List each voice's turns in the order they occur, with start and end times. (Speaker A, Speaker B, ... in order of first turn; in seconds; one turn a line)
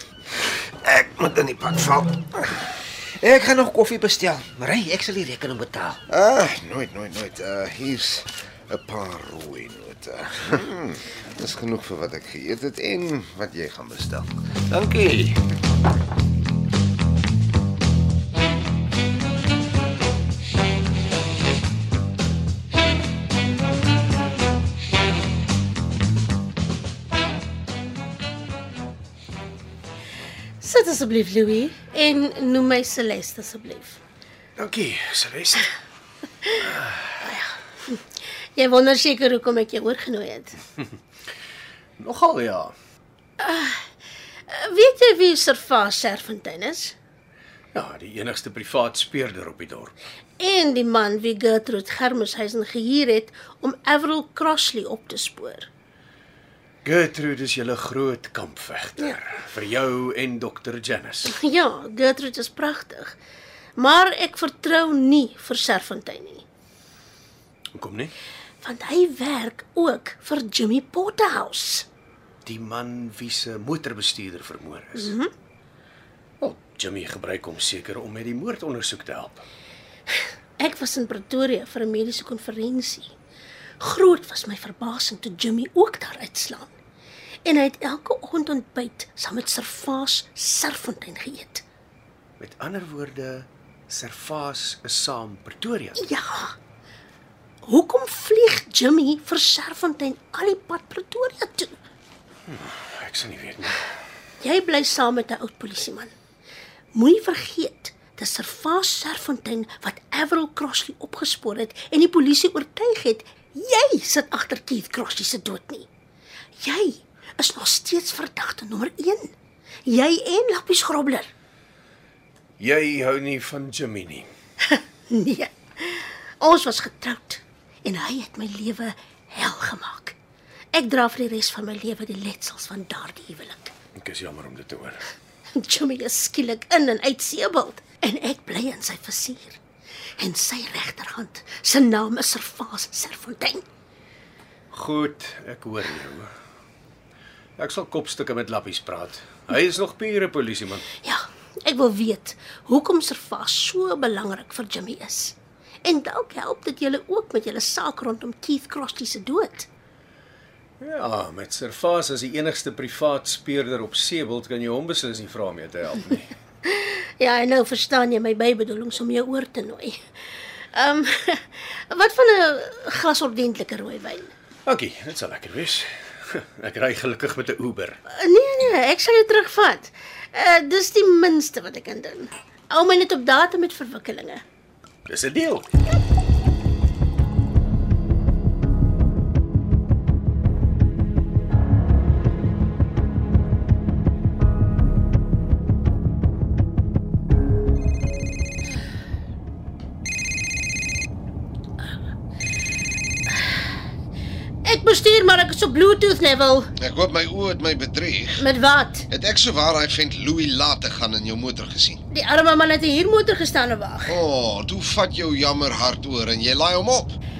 Speaker A: 0.3-2.6
Speaker B: 2.9-6.0
Speaker A: 6.1-15.5
Speaker C: 30.6-34.0
Speaker D: 34.6-35.7
Speaker C: 36.4-36.7
Speaker D: 36.6-37.2
Speaker C: 37.2-40.6
Speaker D: 42.0-42.7
Speaker C: 43.4-43.9
Speaker C: 44.5-47.0
Speaker D: 47.7-49.9
Speaker C: 50.4-55.7
Speaker D: 56.8-61.3
Speaker C: 61.3-63.2
Speaker C: 63.8-66.4
Speaker D: 67.7-68.1
Speaker C: 68.6-71.8
Speaker D: 72.4-75.1
Speaker C: 75.0-75.3
Speaker D: 76.4-79.5
Speaker C: 80.1-83.1
Speaker C: 83.8-86.7
Speaker C: 87.4-91.6
Speaker D: 92.4-96.0
Speaker C: 96.0-96.5
Speaker C: 97.7-101.8
Speaker D: 102.5-103.9
Speaker C: 104.4-106.1
Speaker C: 106.9-115.9
Speaker C: 116.6-119.3
Speaker C: 119.8-121.3
Speaker D: 122.6-124.3
Speaker C: 124.6-130.2
Speaker C: 130.7-133.7
Speaker D: 133.9-135.1
Speaker C: 135.6-139.6
Speaker C: 140.2-143.7
Speaker D: 144.7-146.3
Speaker D: 147.6-150.9
Speaker C: 151.0-159.7
Speaker D: 160.8-166.3
Speaker C: 166.6-174.3
Speaker D: 174.7-178.0
Speaker C: 178.1-184.4
Speaker D: 185.1-185.7
Speaker C: 204.6-206.7
Speaker A: 206.8-208.5
Speaker C: 208.4-209.1
Speaker A: 209.1-212.0
Speaker C: 212.1-214.2
Speaker A: 214.1-217.2